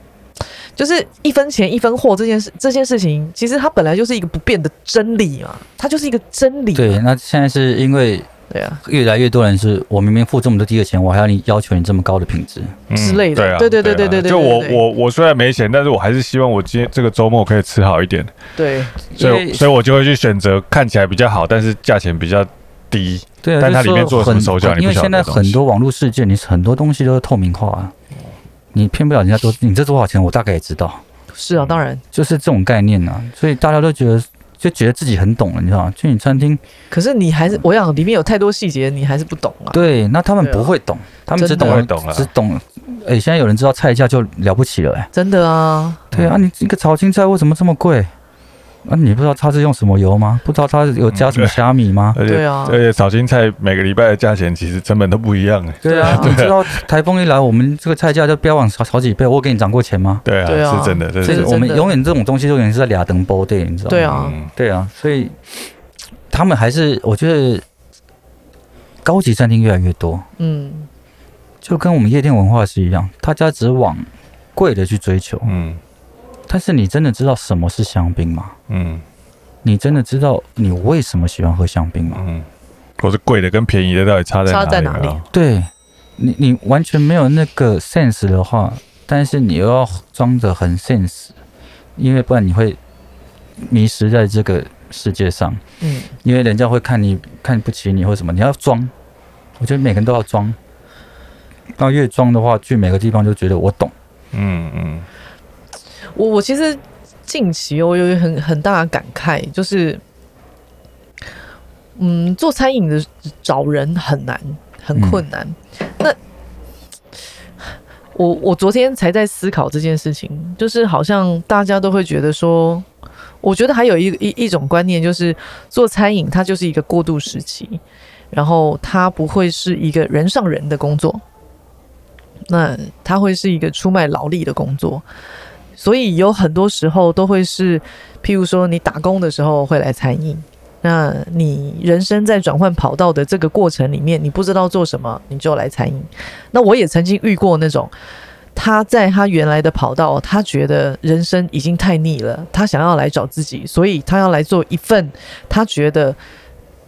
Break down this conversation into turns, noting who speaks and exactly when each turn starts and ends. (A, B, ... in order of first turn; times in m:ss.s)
0:00.8-0:07.0 A
0:06.7-0:08.3 B
0:08.5-0:08.8 A
0:08.8-0:12.8 B
0:12.9-0:18.4 C
0:12.9-0:14.8 A
0:18.6-0:19.0 A
0:19.1-0:19.7 B
0:19.2-0:25.6 C
0:23.4-0:27.9 B
0:28.7-0:31.0 B
0:31.3-0:32.0 A
0:32.1-0:36.6 B
0:36.9-0:39.8 A
0:39.7-0:45.1 B
0:40.4-0:40.7 A
0:41.4-0:41.8 A
0:41.4-0:42.3 C
0:45.1-0:46.0 A
0:46.1-0:46.4 C
0:46.1-0:48.1 B
0:48.8-0:52.2 B
0:51.1-0:51.6 C
0:52.1-0:56.7 C
0:52.2-0:52.8 A
0:55.8-1:00.2 B
0:55.9-0:56.4 A
1:00.2-1:01.6 C
1:00.4-1:02.0 A
1:01.2-1:05.4 B
1:03.9-1:04.4 A
1:04.0-1:04.5 C
1:06.3-1:07.6 B
1:09.0-1:10.3 B
1:10.4-1:10.9 A
1:11.6-1:15.5 B
1:15.5-1:15.8 C
1:16.5-1:18.6 B
1:18.7-1:19.0 C
1:19.6-1:22.2 B
1:22.2-1:22.5 C
1:23.0-1:25.3 C
1:24.5-1:25.2 A
1:25.3-1:31.3 B
1:32.0-1:32.8 B
1:33.6-1:35.6 B
1:35.8-1:36.1 A
1:36.2-1:38.9 B
1:39.6-1:40.6 B
1:41.8-1:43.9 B
1:44.3-1:45.1 C
1:46.2-1:50.0 A
1:52.0-1:56.2 A
1:55.0-1:55.2 B
1:58.2-2:02.9 A
2:03.4-2:07.8 A
2:08.3-2:11.2 A
2:12.5-2:15.0 A
2:15.8-2:27.9 A
2:28.6-2:36.2 A